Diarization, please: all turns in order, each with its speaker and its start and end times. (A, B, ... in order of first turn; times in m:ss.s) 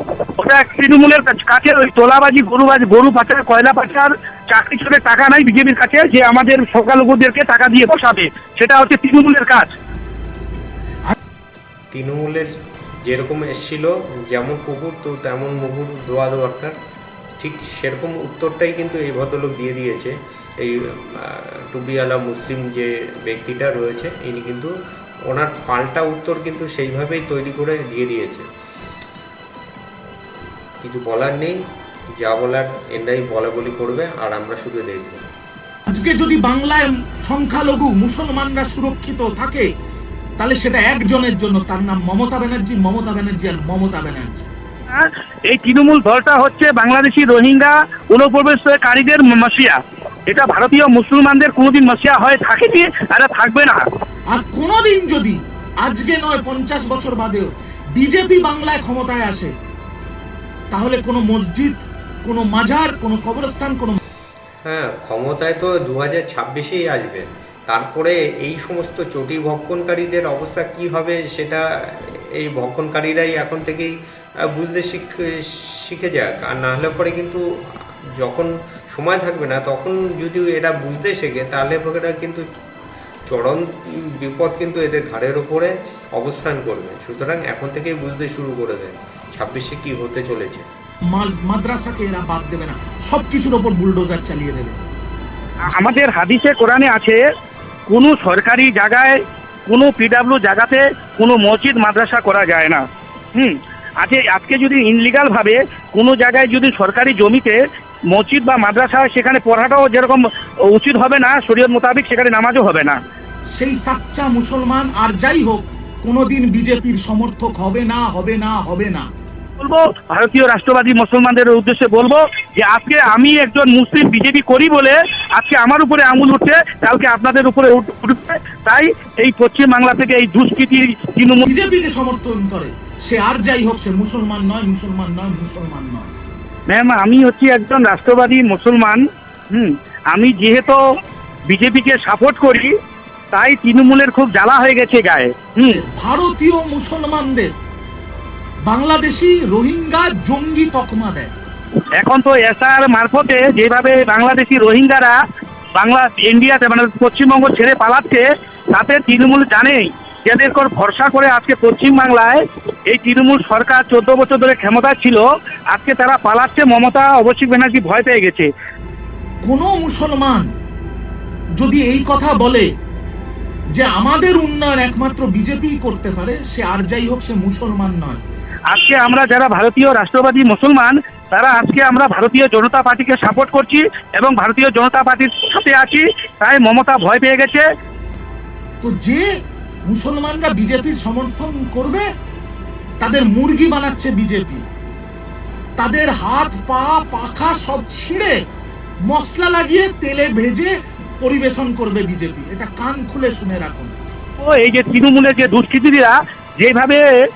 0:00.4-0:09.7 A
0:11.9-0:12.5 B
0:13.0-0:16.7 B
0:17.4-0:24.7 B
0:25.3-0:28.4 B
0:30.8-0:31.6 B
0:32.2-0:35.2 B
0:35.9-0:39.7 C
0:40.4-0:44.5 C
0:44.9-0:53.8 A
0:54.3-0:59.5 C
1:00.7-1:04.0 C
1:04.6-1:22.4 B
1:23.3-1:30.6 B
1:31.1-1:34.8 C
1:35.7-1:37.2 A
1:37.9-1:42.8 A
1:43.3-1:47.6 A
1:48.1-1:53.0 A
1:53.5-1:59.1 C
1:59.6-2:11.4 A
2:11.4-2:16.1 C
2:16.7-2:20.8 A
2:21.5-2:22.7 A
2:23.3-2:25.8 A
2:25.7-2:27.5 C
2:28.6-2:31.3 C
2:32.0-2:35.2 A
2:35.7-2:48.5 A
2:49.4-2:50.5 C
2:51.6-2:52.7 C
2:53.7-2:58.2 C
2:58.7-3:07.6 A
3:08.8-3:09.3 C
3:09.8-3:12.1 C
3:13.0-3:14.6 C
3:15.8-3:18.4 C
3:19.0-3:24.0 C
3:24.4-3:27.1 A